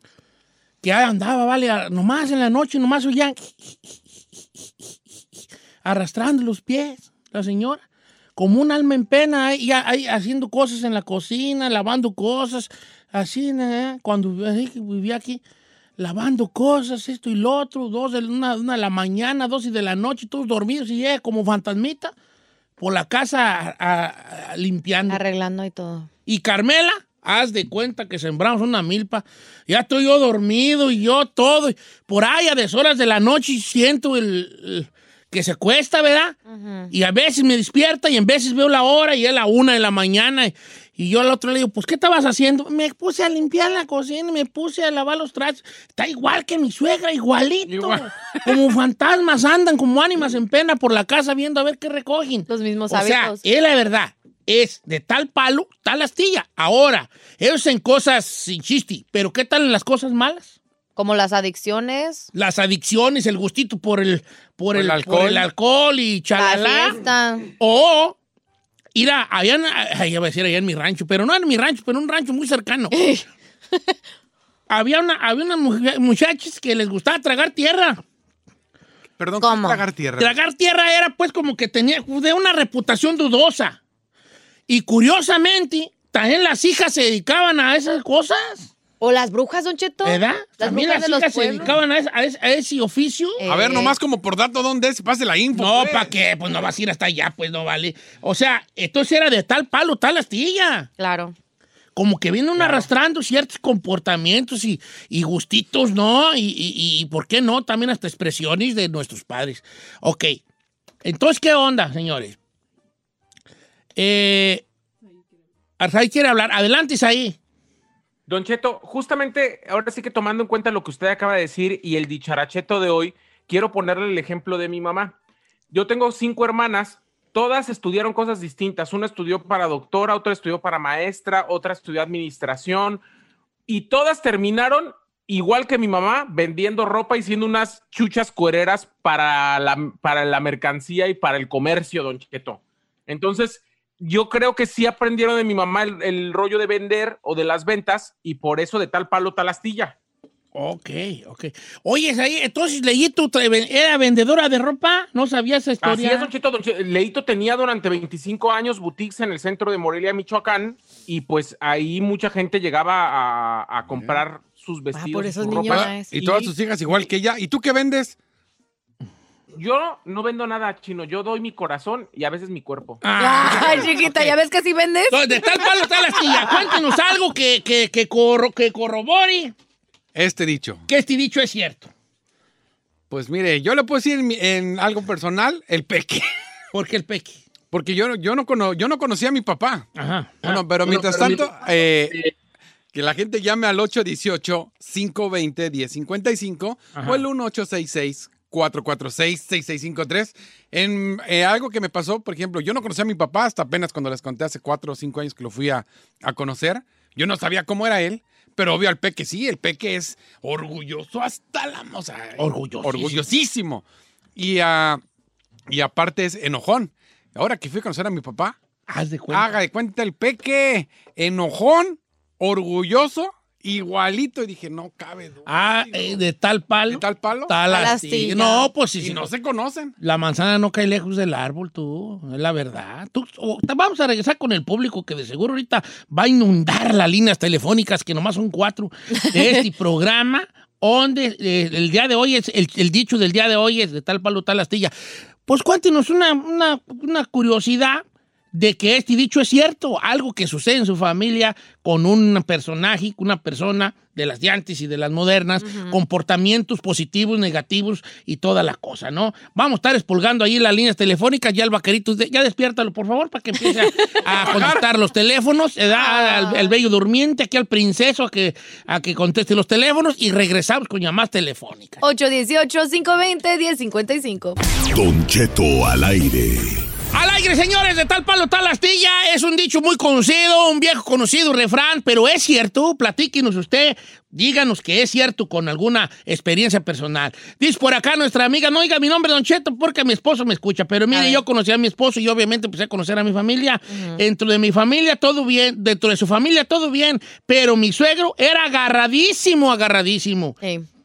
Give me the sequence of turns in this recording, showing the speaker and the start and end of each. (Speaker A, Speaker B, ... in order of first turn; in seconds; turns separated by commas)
Speaker A: 0.8-7.8, Speaker A: 8.4-15.4, Speaker A: 16.0-22.1, Speaker A: 22.8-25.2, Speaker B: 25.1-26.1, Speaker A: 26.3-36.4, Speaker B: 36.5-36.9, Speaker A: 36.9-60.6, Speaker C: 47.7-48.5, Speaker B: 52.5-53.4, Speaker B: 61.0-62.3, Speaker A: 62.3-67.0, Speaker C: 64.7-65.5, Speaker B: 66.3-67.5, Speaker A: 67.6-68.2, Speaker A: 68.9-73.0, Speaker B: 72.9-73.9, Speaker A: 74.7-78.0, Speaker C: 79.2-80.3, Speaker B: 79.4-79.8, Speaker A: 80.2-83.8, Speaker A: 84.7-88.7, Speaker B: 89.0-91.7, Speaker A: 90.0-93.4, Speaker B: 93.4-94.0, Speaker C: 93.5-96.1, Speaker A: 95.5-100.9, Speaker B: 101.0-101.3, Speaker A: 102.0-110.4, Speaker C: 102.6-102.9, Speaker A: 111.0-112.4, Speaker A: 114.0-114.6, Speaker A: 115.8-117.4, Speaker D: 118.3-125.2, Speaker D: 125.7-133.0, Speaker D: 133.7-149.9, Speaker A: 150.5-156.3, Speaker D: 155.8-165.9, Speaker B: 164.9-166.5, Speaker C: 165.6-168.2, Speaker D: 169.6-173.0, Speaker A: 173.0-174.3, Speaker B: 173.2-176.8, Speaker A: 175.1-179.5, Speaker C: 180.1-180.9, Speaker A: 180.9-181.9, Speaker C: 183.1-186.3, Speaker A: 186.7-187.4, Speaker C: 187.7-189.9, Speaker A: 189.9-191.4, Speaker C: 190.4-192.2, Speaker C: 192.9-213.8, Speaker A: 196.9-197.2, Speaker A: 212.4-213.2, Speaker C: 214.4-215.0, Speaker C: 215.7-218.6, Speaker A: 218.9-219.6, Speaker C: 219.3-226.2, Speaker A: 225.4-229.3, Speaker C: 226.9-227.6, Speaker B: 227.6-228.7, Speaker C: 229.0-229.9, Speaker A: 230.0-244.9, Speaker B: 239.2-239.6, Speaker A: 245.4-272.0, Speaker B: 255.6-256.0, Speaker C: 264.4-264.8, Speaker B: 265.9-266.7, Speaker B: 272.0-274.6, Speaker E: 274.9-276.9, Speaker A: 277.1-300.6, Speaker B: 291.1-291.4, Speaker B: 293.9-294.2